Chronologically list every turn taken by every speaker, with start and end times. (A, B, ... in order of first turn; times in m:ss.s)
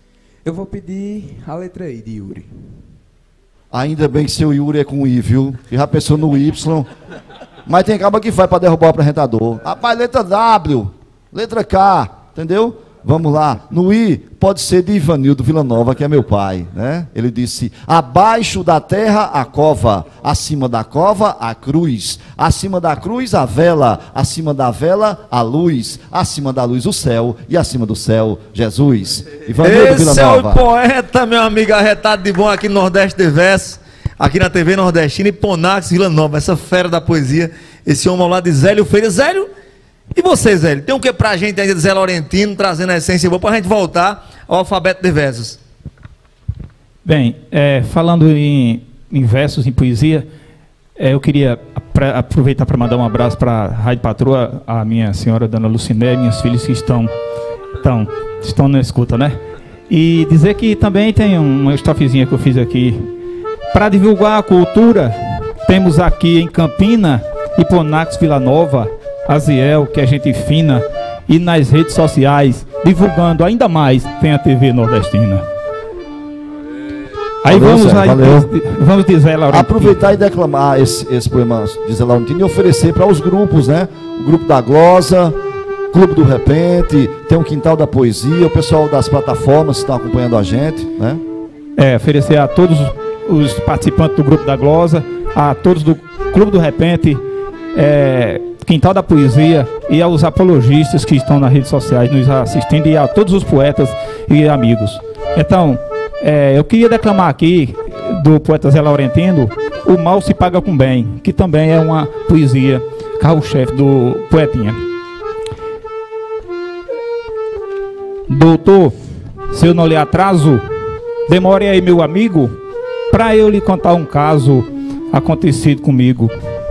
0:00.4-0:02.7 A
0:03.7-0:06.9 B
0:07.6-0:30.6 B
0:29.6-0:39.5 C
0:40.1-0:45.6 C
0:47.0-0:50.3 D
0:51.0-0:57.1 D
0:57.8-1:03.1 D
1:03.7-1:15.4 D
1:17.4-1:20.1 D
1:17.5-1:18.5 B
1:19.5-1:25.4 B
1:25.9-1:31.2 B
1:31.8-1:37.2 D
1:37.7-1:54.8 D
1:58.3-1:58.9 D
1:59.5-2:00.6 D
2:01.3-2:02.5 D
2:03.1-2:06.3 D